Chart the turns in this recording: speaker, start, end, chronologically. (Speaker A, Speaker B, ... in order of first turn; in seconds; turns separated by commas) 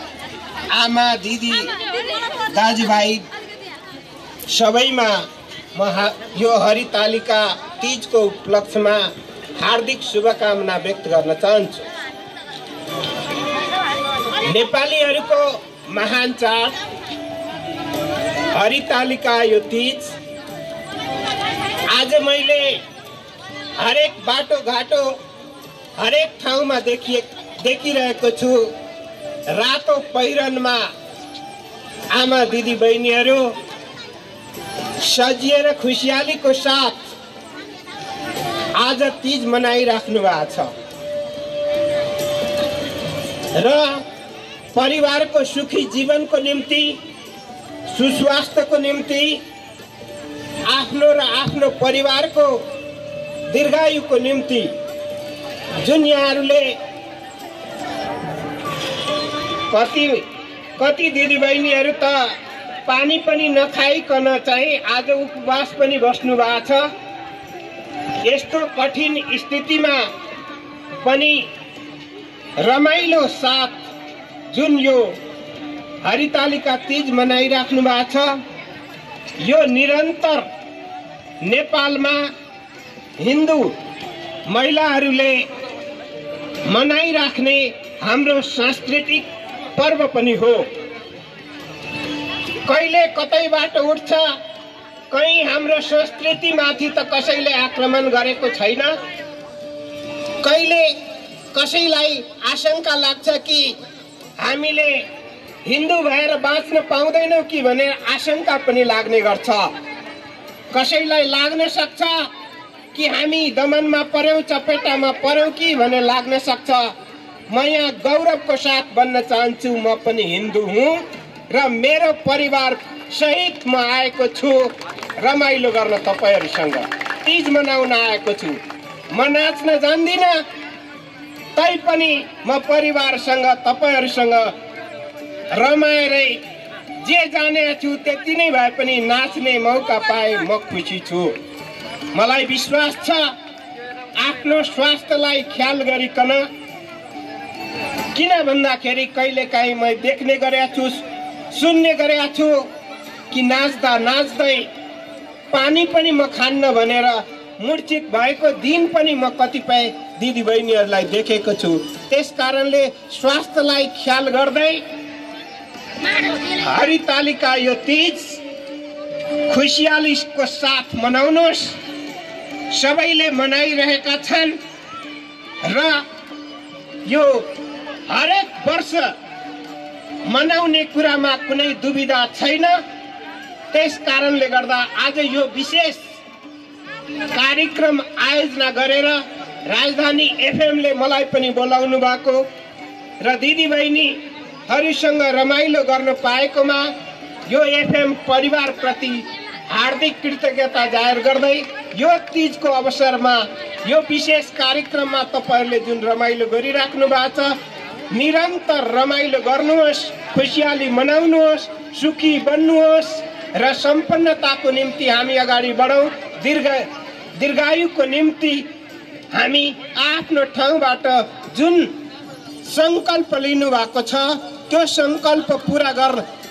Speaker A: 0.7-1.7, Speaker A: 2.5-3.2, Speaker A: 4.5-11.9, Speaker A: 14.5-16.8, Speaker A: 18.5-20.1, Speaker A: 21.9-22.8, Speaker A: 23.8-25.1, Speaker A: 26.0-28.7, Speaker A: 29.5-30.9, Speaker A: 32.1-33.5, Speaker A: 35.0-37.1, Speaker A: 38.8-40.7, Speaker A: 43.5-44.0, Speaker A: 44.7-47.0, Speaker A: 47.9-49.4, Speaker A: 50.7-52.6, Speaker A: 53.5-54.7, Speaker A: 55.8-56.8, Speaker A: 59.7-60.3, Speaker A: 60.8-62.3, Speaker A: 62.9-66.9, Speaker A: 68.2-70.1, Speaker A: 71.0-71.5, Speaker A: 72.6-73.8, Speaker A: 74.5-75.2, Speaker A: 76.0-78.4, Speaker A: 79.4-80.5, Speaker A: 81.4-82.3, Speaker A: 83.2-83.8, Speaker A: 84.5-85.5, Speaker A: 86.7-90.7, Speaker A: 92.6-94.4, Speaker A: 95.1-99.0, Speaker A: 100.4-101.0, Speaker A: 101.5-103.8, Speaker A: 104.4-105.0, Speaker A: 105.7-109.7, Speaker A: 110.7-112.3, Speaker A: 112.9-116.9, Speaker A: 117.5-130.4, Speaker A: 131.6-134.5, Speaker A: 135.5-136.4, Speaker A: 137.0-141.4, Speaker A: 142.1-143.3, Speaker A: 144.2-146.5, Speaker A: 148.1-152.7, Speaker A: 153.3-154.7, Speaker A: 155.5-164.8, Speaker A: 166.4-168.4, Speaker A: 169.4-171.8, Speaker A: 172.7-174.6, Speaker A: 175.6-176.1, Speaker A: 177.1-177.5, Speaker A: 178.1-179.1, Speaker A: 180.2-182.8, Speaker A: 183.7-186.0, Speaker A: 187.3-192.4, Speaker A: 193.2-196.9, Speaker A: 197.5-207.6, Speaker A: 208.1-218.7, Speaker A: 219.3-222.0, Speaker A: 222.6-226.2